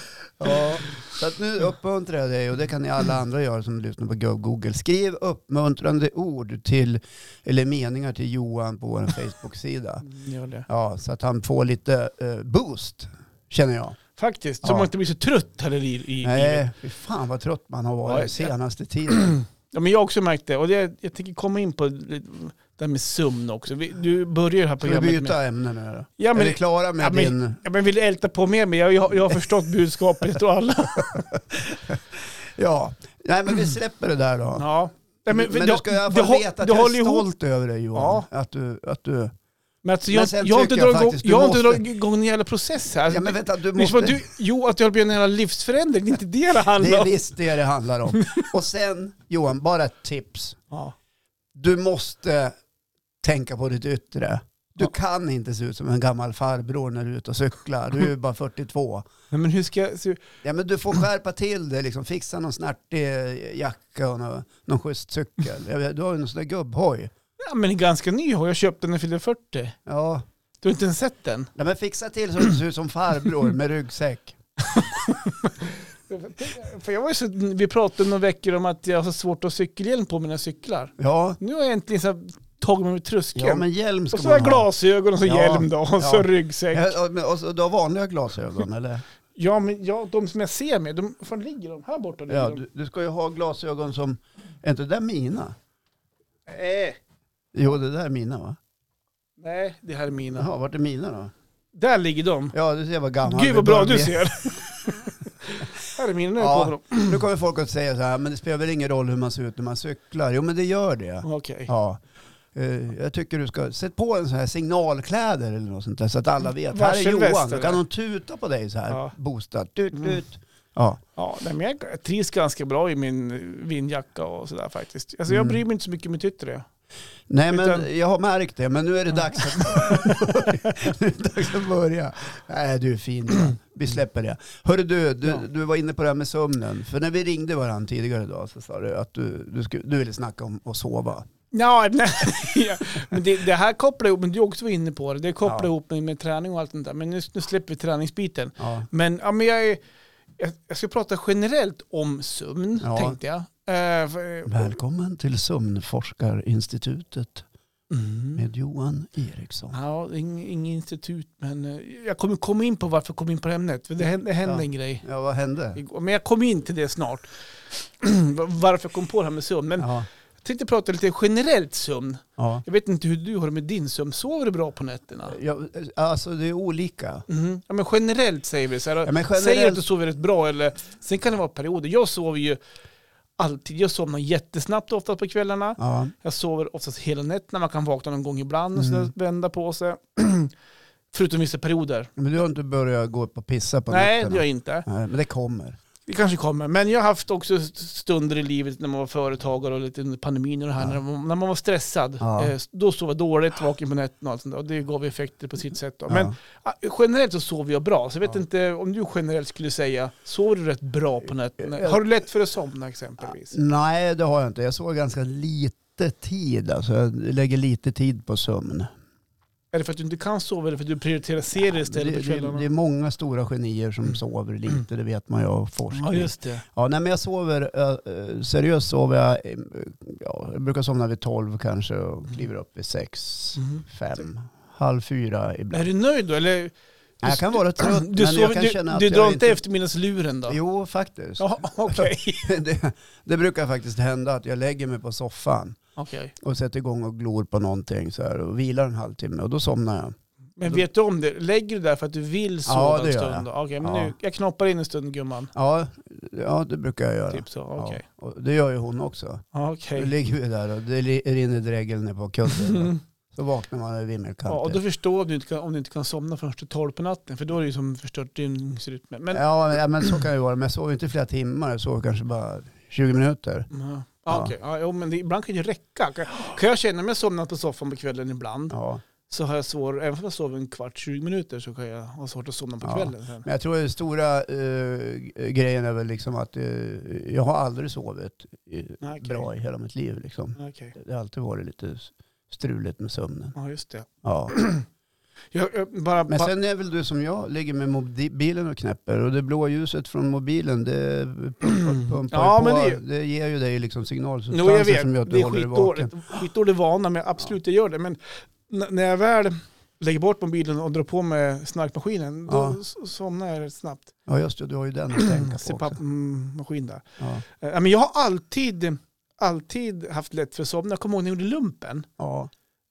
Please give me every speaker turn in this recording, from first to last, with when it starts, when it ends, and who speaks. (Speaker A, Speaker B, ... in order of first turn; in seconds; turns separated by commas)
Speaker A: 0.4-10.1, Speaker B: 10.0-10.7, Speaker A: 10.7-14.0, Speaker B: 14.2-16.6, Speaker A: 14.6-14.9, Speaker A: 16.2-19.4, Speaker B: 18.1-18.5, Speaker B: 19.1-25.4, Speaker A: 24.8-27.6, Speaker B: 26.2-31.2, Speaker A: 32.5-34.6, Speaker B: 34.5-37.3, Speaker A: 35.3-39.3, Speaker B: 37.9-38.2, Speaker B: 39.8-47.1, Speaker A: 40.1-41.8, Speaker A: 43.1-44.2, Speaker A: 46.7-50.6, Speaker B: 48.1-48.5, Speaker A: 51.5-52.5, Speaker A: 53.2-59.1, Speaker B: 59.3-60.2, Speaker A: 60.4-67.1, Speaker B: 67.4-69.8, Speaker A: 69.8-70.2, Speaker B: 70.6-71.5, Speaker A: 71.5-74.4, Speaker B: 74.6-86.9, Speaker A: 81.0-81.4, Speaker A: 83.3-84.7, Speaker A: 85.2-89.0, Speaker B: 89.3-92.6, Speaker A: 92.3-95.5, Speaker B: 96.5-97.0, Speaker A: 97.5-98.6, Speaker B: 99.4-100.5, Speaker A: 100.3-101.3, Speaker B: 101.7-102.5, Speaker A: 102.5-104.3, Speaker B: 103.2-107.2, Speaker A: 106.4-112.0, Speaker B: 111.2-111.7, Speaker A: 112.5-121.0, Speaker B: 116.7-117.8, Speaker B: 119.9-120.2, Speaker B: 121.2-126.7, Speaker A: 125.3-125.6, Speaker A: 127.3-141.2, Speaker B: 127.5-127.8, Speaker B: 129.3-130.6, Speaker B: 141.5-149.8, Speaker A: 148.6-148.9, Speaker B: 150.4-154.7, Speaker A: 152.8-153.2, Speaker A: 154.4-157.4, Speaker B: 157.9-158.4, Speaker A: 158.3-159.8, Speaker B: 159.7-165.0, Speaker A: 164.4-165.8, Speaker B: 165.8-169.9, Speaker A: 169.8-170.1, Speaker B: 170.4-175.3, Speaker A: 172.4-172.6, Speaker A: 175.2-177.2, Speaker B: 177.3-182.6, Speaker A: 179.0-179.8, Speaker B: 183.4-190.5, Speaker A: 185.8-186.1, Speaker A: 188.8-189.1, Speaker B: 191.1-192.1, Speaker A: 192.2-195.8, Speaker B: 193.9-194.8, Speaker B: 196.1-213.6, Speaker A: 202.2-202.5, Speaker A: 206.1-206.3, Speaker A: 211.6-212.0, Speaker A: 213.2-218.9, Speaker B: 219.7-222.7, Speaker A: 221.6-235.9, Speaker B: 225.9-226.6, Speaker B: 233.6-233.8, Speaker B: 235.7-240.6, Speaker A: 237.2-239.6, Speaker A: 240.5-245.8, Speaker B: 241.4-242.5, Speaker B: 245.9-246.3, Speaker A: 246.4-250.8, Speaker B: 250.6-255.5, Speaker A: 252.7-254.1, Speaker A: 255.5-259.4, Speaker B: 257.3-258.0, Speaker B: 259.5-260.1, Speaker A: 259.9-264.8, Speaker B: 262.5-263.0, Speaker B: 264.5-269.4, Speaker A: 269.3-273.7, Speaker B: 273.7-278.7, Speaker A: 278.7-279.0, Speaker B: 279.3-283.4, Speaker A: 282.8-293.6, Speaker B: 289.0-289.4, Speaker B: 290.6-290.9, Speaker B: 293.6-294.9, Speaker A: 294.2-294.5, Speaker B: 295.5-296.5, Speaker A: 296.3-306.4, Speaker B: 301.9-303.0, Speaker B: 304.5-314.1, Speaker A: 312.5-312.8, Speaker A: 314.3-316.0, Speaker B: 315.1-322.1, Speaker A: 322.2-322.5